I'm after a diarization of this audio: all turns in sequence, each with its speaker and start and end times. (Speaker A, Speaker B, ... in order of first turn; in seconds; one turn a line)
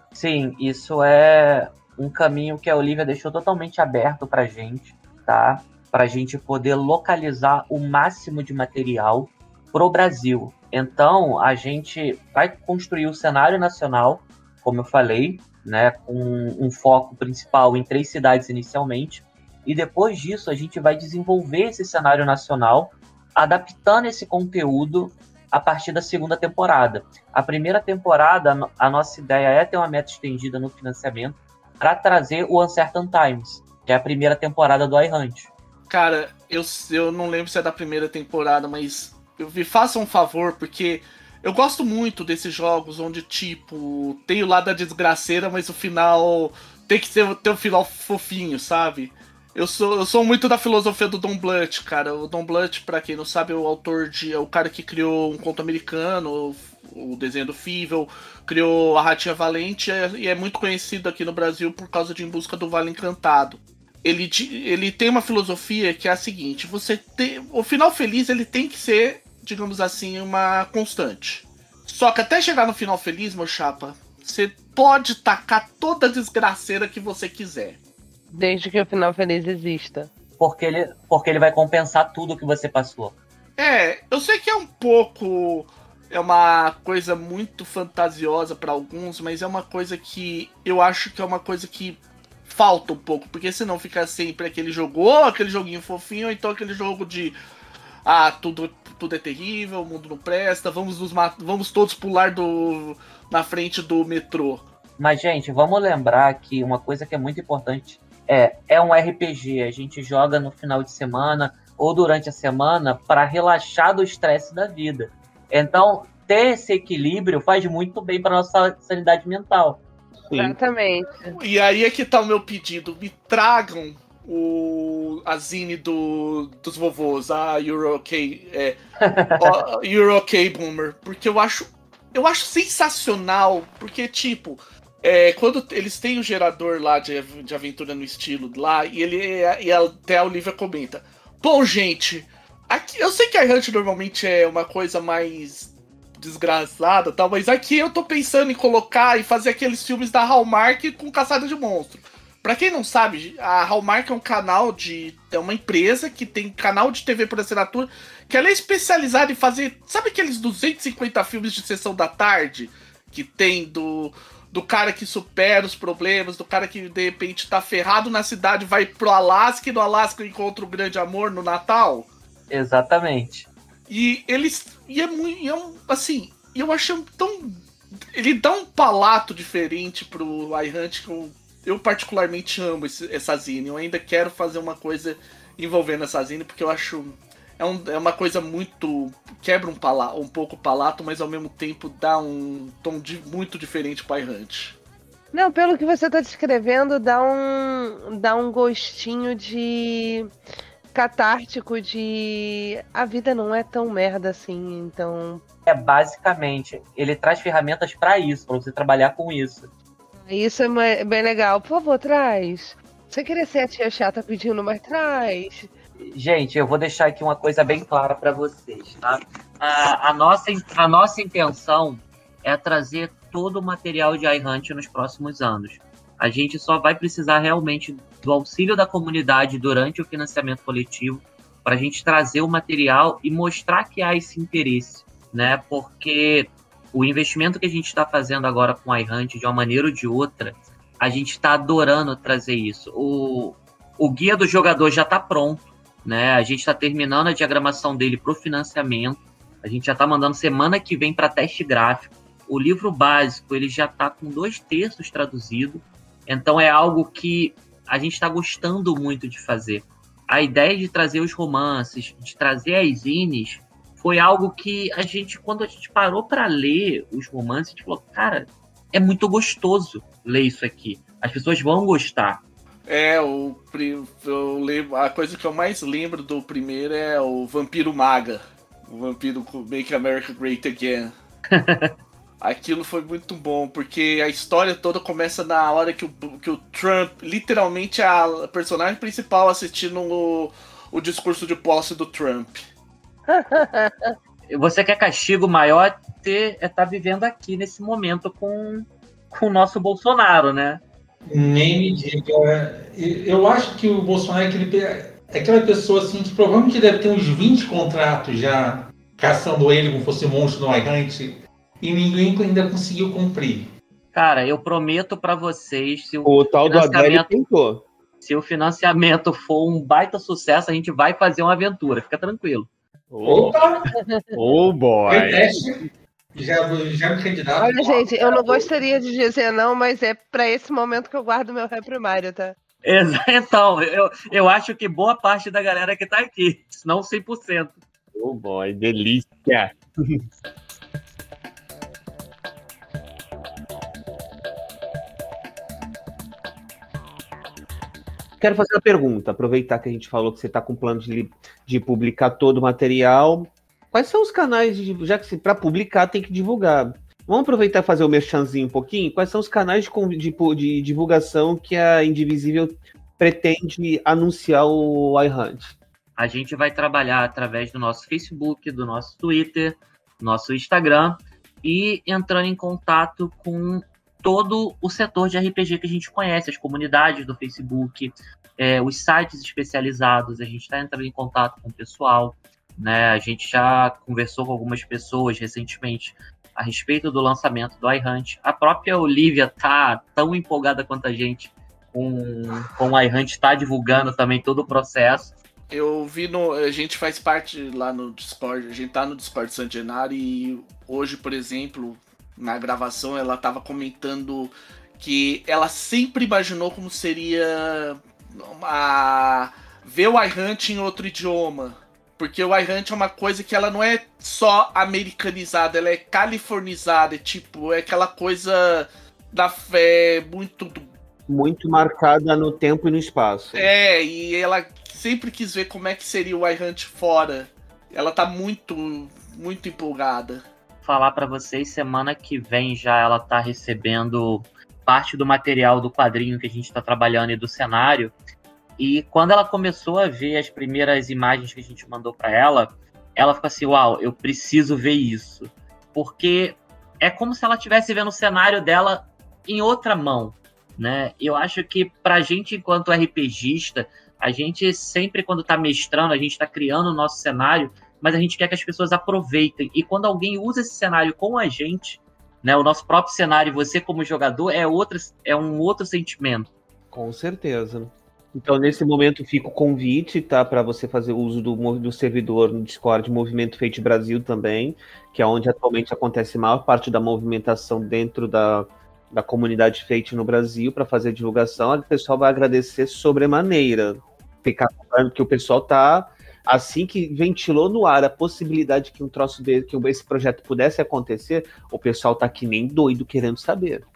Speaker A: 0.1-35.5
Speaker B: 35.9-77.8
Speaker C: 78.3-80.1
Speaker A: 80.4-83.2
Speaker B: 83.6-97.3
Speaker B: 98.0-104.6
Speaker A: 105.0-119.8
Speaker D: 120.2-120.6
Speaker C: 120.3-121.3
Speaker B: 121.3-128.8
Speaker A: 129.0-129.5
Speaker B: 129.4-172.1
Speaker A: 172.5-173.5
Speaker B: 173.9-177.6
Speaker B: 178.1-194.8
Speaker C: 195.3-200.3
Speaker C: 200.9-205.4
Speaker A: 205.7-209.7
Speaker C: 210.3-215.7
Speaker A: 216.0-272.4
Speaker B: 272.9-281.1
Speaker A: 281.5-281.9
Speaker B: 282.4-292.6
Speaker C: 293.3-294.1
Speaker A: 294.5-300.8
Speaker E: 301.2-313.7
Speaker A: 314.1-317.4
Speaker D: 316.2-317.8
Speaker A: 318.2-322.7
Speaker D: 323.1-323.6
Speaker E: 323.2-323.9
Speaker C: 323.9-324.4
Speaker D: 324.3-325.6
Speaker E: 325.1-328.6
Speaker C: 327.6-332.5
Speaker A: 332.8-337.8
Speaker D: 338.1-340.2
Speaker D: 348.4-365.8
Speaker A: 366.1-395.3
Speaker B: 395.7-420.9
Speaker D: 421.3-423.7
Speaker B: 423.5-430.4
Speaker A: 430.8-438.1
Speaker A: 438.8-466.5
Speaker D: 466.9-493.9